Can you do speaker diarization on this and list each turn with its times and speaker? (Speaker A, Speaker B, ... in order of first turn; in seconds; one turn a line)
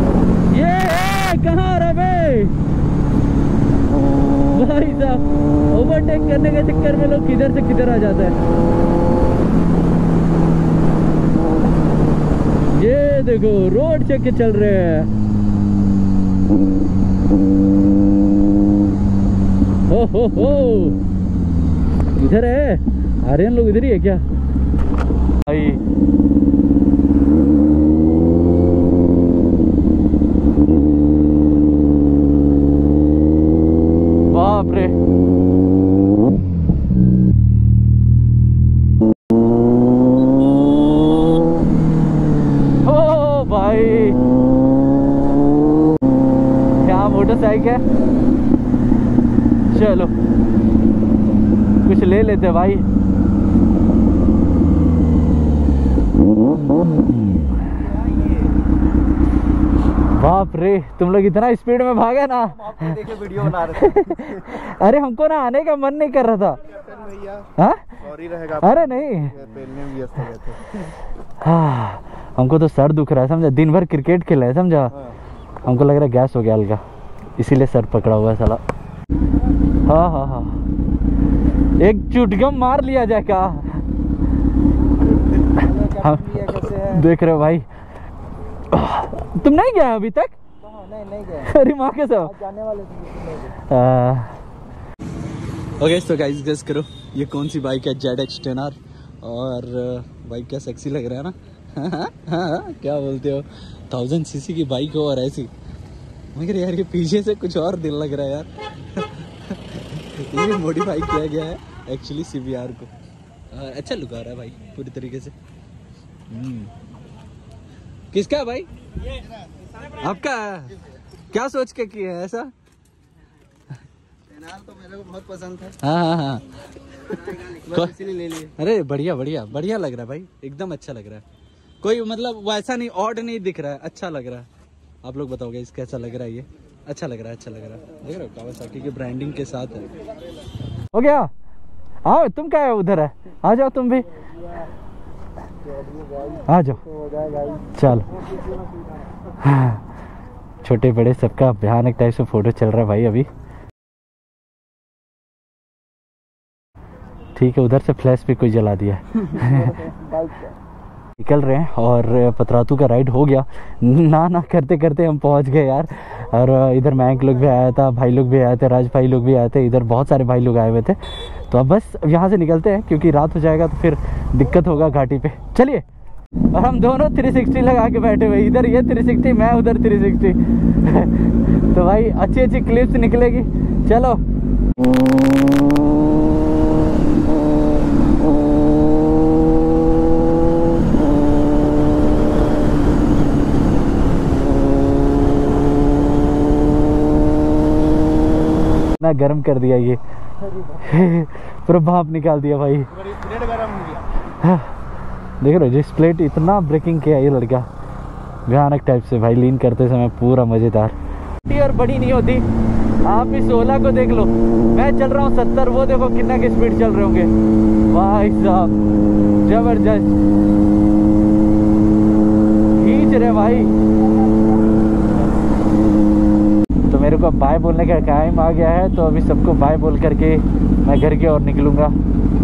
Speaker A: 0.5-2.5
Speaker A: 4.5-8.4
Speaker A: 12.7-15.1
Speaker A: 19.9-21.0
Speaker A: 22.1-24.2
Speaker A: 25.4-25.8
Speaker A: 34.3-35.0
Speaker A: 42.8-44.2
Speaker A: 46.8-47.8
Speaker A: 49.7-50.1
Speaker A: 51.8-52.8
Speaker A: 56.7-57.4
Speaker A: 60.1-66.6
Speaker B: 62.8-63.4
Speaker B: 66.9-67.4
Speaker A: 67.5-69.6
Speaker B: 69.5-70.3
Speaker A: 70.2-70.8
Speaker A: 71.4-75.1
Speaker A: 75.6-76.8
Speaker A: 77.4-78.6
Speaker A: 79.8-80.6
Speaker A: 81.8-83.8
Speaker A: 85.5-87.7
Speaker B: 85.7-87.0
Speaker A: 88.7-90.4
Speaker B: 90.6-91.5
Speaker A: 91.3-92.5
Speaker B: 92.3-93.5
Speaker A: 93.5-94.4
Speaker A: 95.6-105.5
Speaker A: 106.3-112.9
Speaker A: 113.5-115.3
Speaker A: 116.3-116.7
Speaker A: 118.1-119.1
Speaker A: 119.7-122.5
Speaker B: 124.3-125.7
Speaker A: 125.5-131.2
Speaker A: 131.8-134.5
Speaker A: 135.0-139.9
Speaker A: 140.9-141.3
Speaker A: 142.0-144.1
Speaker A: 146.4-146.9
Speaker B: 147.0-147.7
Speaker A: 147.6-148.1
Speaker A: 149.4-149.8
Speaker A: 150.6-153.3
Speaker A: 157.3-159.9
Speaker B: 159.6-160.5
Speaker A: 161.2-175.8
Speaker A: 176.5-184.2
Speaker A: 199.0-200.0
Speaker A: 200.6-203.1
Speaker B: 203.3-204.0
Speaker A: 204.2-204.7
Speaker A: 205.4-207.7
Speaker A: 208.4-212.4
Speaker A: 213.0-217.3
Speaker A: 217.9-218.8
Speaker A: 219.4-220.1
Speaker A: 222.7-223.7
Speaker A: 226.9-231.9